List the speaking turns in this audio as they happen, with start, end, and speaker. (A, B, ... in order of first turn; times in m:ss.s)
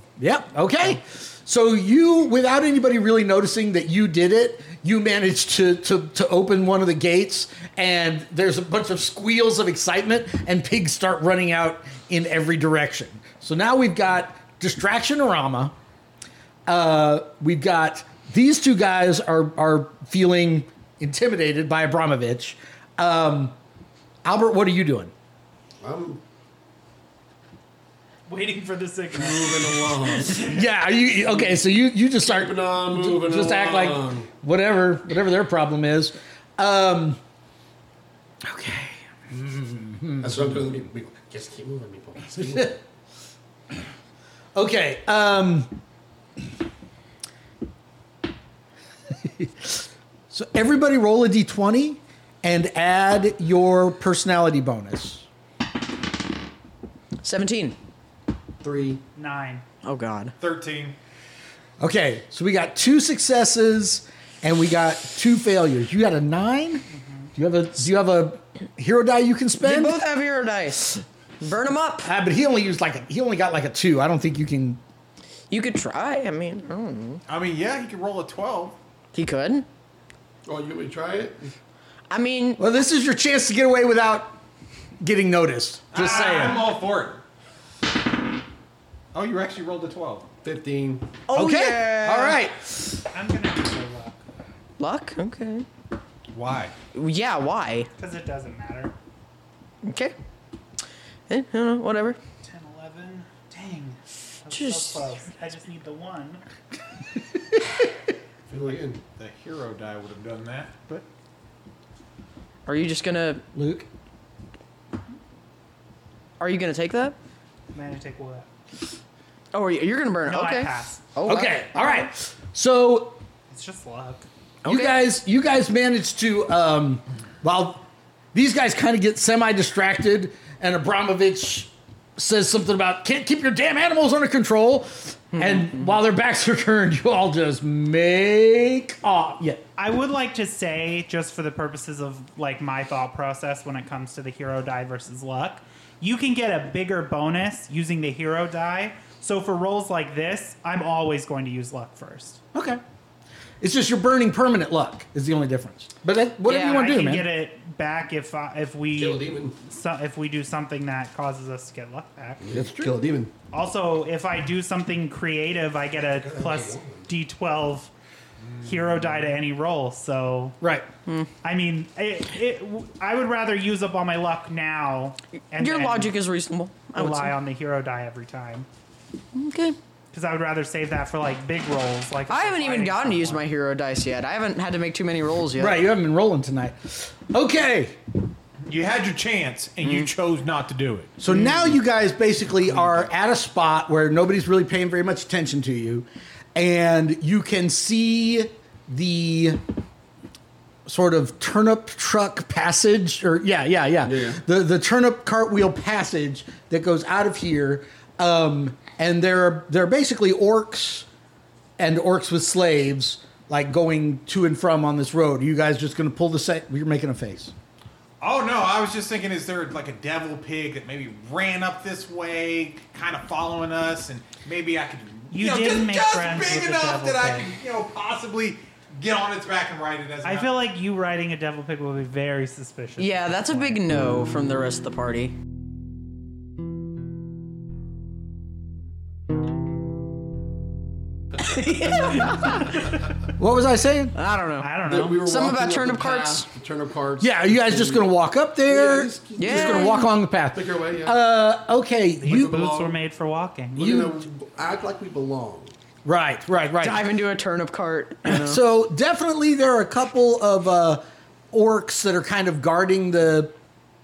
0:00.2-0:15.7 A
0:16.7-0:23.6 A
0:24.2-0:25.1 A
0:25.8-0:26.2 B
0:28.3-0:30.4 C
0:29.1-0:30.6 B
0:30.4-0:37.2 A
0:32.2-0:34.3 B
0:38.4-0:40.7 A
0:40.2-0:42.8 B
0:42.4-0:42.7 A
0:44.5-0:45.7 A
0:49.2-0:55.2 A
0:57.2-0:57.8 D
0:58.6-0:59.0 B
0:59.2-0:59.6 C
0:59.8-1:00.3 D
1:00.4-1:01.0 E
1:01.8-1:06.8 A
1:07.4-1:10.0 A
1:09.6-1:12.1 D
1:12.0-1:14.8 A
1:15.5-1:17.2 D
1:17.3-1:18.8 E
1:19.1-1:19.6 D
1:20.4-1:21.5 B
1:22.1-1:22.6 D
1:22.6-1:24.4 A
1:25.0-1:26.6 A
1:25.9-1:27.2 E
1:26.0-1:26.6 C
1:29.1-1:30.3 E
1:30.4-1:31.1 B
1:31.3-1:32.3 D
1:31.3-1:32.6 A
1:31.8-1:32.4 E
1:33.1-1:34.2 C
1:34.8-1:35.6 D
1:36.3-1:36.7 E
1:36.9-1:37.9 D
1:38.0-1:38.9 C
1:39.8-1:40.1 D
1:41.3-1:42.2 D
1:42.4-1:46.4 C
1:44.5-1:45.0 D
1:48.5-1:49.0 B
1:49.2-1:51.0 E
1:52.6-1:53.4 D
1:53.5-1:53.9 A
1:56.4-1:57.2 D
1:57.7-1:58.5 C
1:59.5-2:01.8 D
2:00.2-2:01.0 C
2:01.2-2:03.2 A
2:03.5-2:04.2 C
2:04.6-2:05.0 D
2:04.6-2:19.6 A
2:15.4-2:15.6 D
2:19.8-2:32.4 C
2:32.5-2:32.8 A
2:33.6-2:37.3 A
2:36.5-2:36.8 D
2:36.5-2:42.4 C
2:38.9-2:39.6 B
2:42.4-2:43.3 B
2:42.5-2:42.9 A
2:43.5-2:47.9 C
2:46.1-2:47.0 B
2:48.4-2:48.7 E
2:48.6-2:50.6 C
2:50.6-2:50.9 A
2:51.4-2:56.1 C
2:55.6-2:57.3 D
2:56.9-2:58.7 C
2:59.3-2:59.8 D
3:00.1-3:03.4 C
3:02.3-3:05.8 D
3:05.6-3:08.0 A
3:08.6-3:11.1 E
3:11.2-3:19.6 A
3:11.3-3:11.6 D
3:20.8-3:31.1 A
3:24.0-3:24.4 B
3:31.8-3:37.5 A
3:38.2-3:50.5 E
3:45.3-3:47.5 C
3:50.2-3:53.8 C
3:53.0-3:55.3 D
4:01.4-4:02.7 D
4:03.4-4:04.1 A
4:04.2-4:06.5 D
4:04.6-4:05.2 C
4:04.8-4:08.1 B
4:07.2-4:12.6 A
4:08.7-4:11.2 B
4:09.4-4:10.1 D
4:12.2-4:14.0 C
4:12.3-4:13.0 B
4:13.8-4:15.7 B
4:13.8-4:14.1 A
4:16.0-4:17.1 A
4:16.8-4:18.6 D
4:18.2-4:23.5 A